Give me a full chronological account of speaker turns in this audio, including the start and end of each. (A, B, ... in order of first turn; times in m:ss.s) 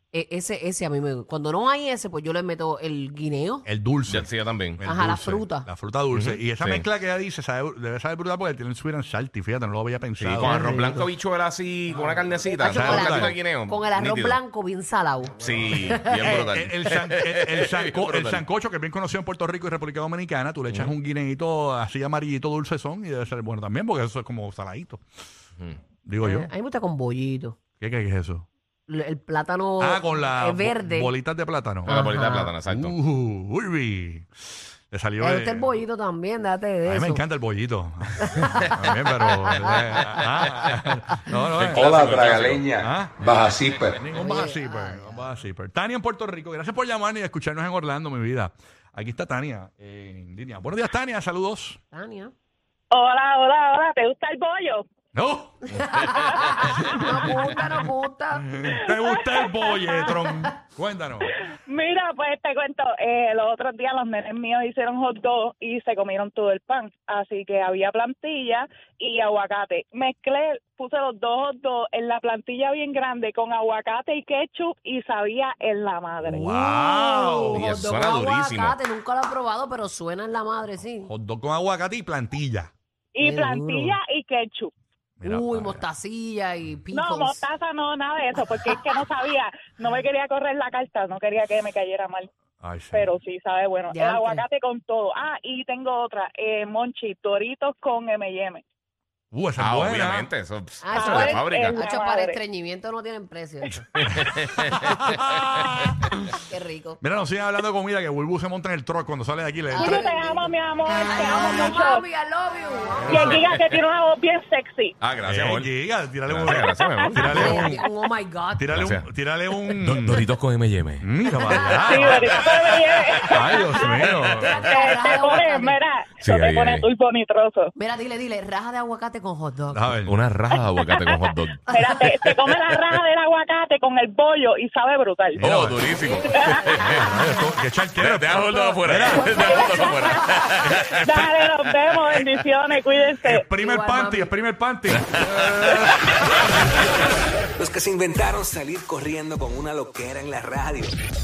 0:00.1-0:03.7 A
0:03.7-0:10.7 B
0:04.1-0:04.8 C
0:04.8-0:05.7 A
0:06.1-0:06.9 C
0:10.2-0:14.4 C
0:10.4-0:11.1 A
0:12.5-0:16.3 A
0:12.7-0:13.4 B
0:15.4-0:18.4 C
0:16.2-0:25.0 B
0:20.7-0:20.9 C
0:26.0-0:26.5 B
0:26.2-0:27.6 A
0:27.8-0:28.5 B
0:28.9-0:31.1 A
0:29.8-0:34.3 B
0:31.8-0:33.0 C
0:31.9-0:32.5 A
0:34.9-0:35.7 B
0:35.2-0:37.2 A
0:36.9-0:51.8 B
0:39.3-0:40.4 C
0:41.6-0:42.6 C
0:41.7-0:44.0 D
0:44.1-0:45.3 A
0:51.9-0:52.3 A
0:52.9-0:54.8 E
0:55.1-0:55.7 B
0:55.8-0:58.5 A
0:56.1-0:56.6 E
0:56.6-0:57.8 B
0:58.5-1:01.3 B
0:58.7-1:00.2 E
1:00.2-1:00.5 A
1:01.7-1:16.8 E
1:16.2-1:17.6 B
1:16.8-1:21.1 A
1:17.6-1:18.8 C
1:21.0-1:22.7 B
1:23.2-1:24.7 E
1:23.2-1:24.0 A
1:25.2-1:25.8 B
1:25.2-1:27.5 A
1:26.9-1:32.3 E
1:32.6-1:33.1 B
1:32.9-1:38.6 E
1:33.9-1:34.4 A
1:39.3-1:40.3 B
1:39.6-1:41.8 C
1:40.8-1:43.9 A
1:40.9-1:42.4 E
1:44.0-1:45.3 C
1:44.7-1:46.1 B
1:46.3-1:47.0 A
1:47.0-1:50.0 B
1:49.7-1:53.4 A
1:49.8-1:52.0 E
1:53.1-1:54.9 E
1:53.2-1:53.7 C
1:55.0-1:57.8 C
1:55.2-1:57.8 B
1:56.8-1:57.4 E
1:57.2-1:58.7 A
1:58.6-2:00.3 B
1:58.7-1:59.1 C
1:59.8-2:01.1 C
2:01.0-2:02.1 B
2:01.3-2:02.5 A
2:01.8-2:07.7 E
2:03.3-2:05.8 A
2:03.3-2:04.6 B
2:06.2-2:06.9 C
2:07.8-2:09.9 A
2:09.7-2:10.2 B
2:10.1-2:13.0 C
2:10.6-2:11.2 E
2:11.7-2:16.8 E
2:15.4-2:17.1 C
2:15.4-2:15.8 B
2:16.5-2:16.9 A
2:16.8-2:19.7 B
2:18.0-2:22.4 C
2:18.7-2:20.1 A
2:19.3-2:23.4 E
2:20.6-2:21.2 B
2:23.2-2:26.7 B
2:23.6-2:24.3 A
2:25.6-2:25.9 C
2:27.0-2:31.0 D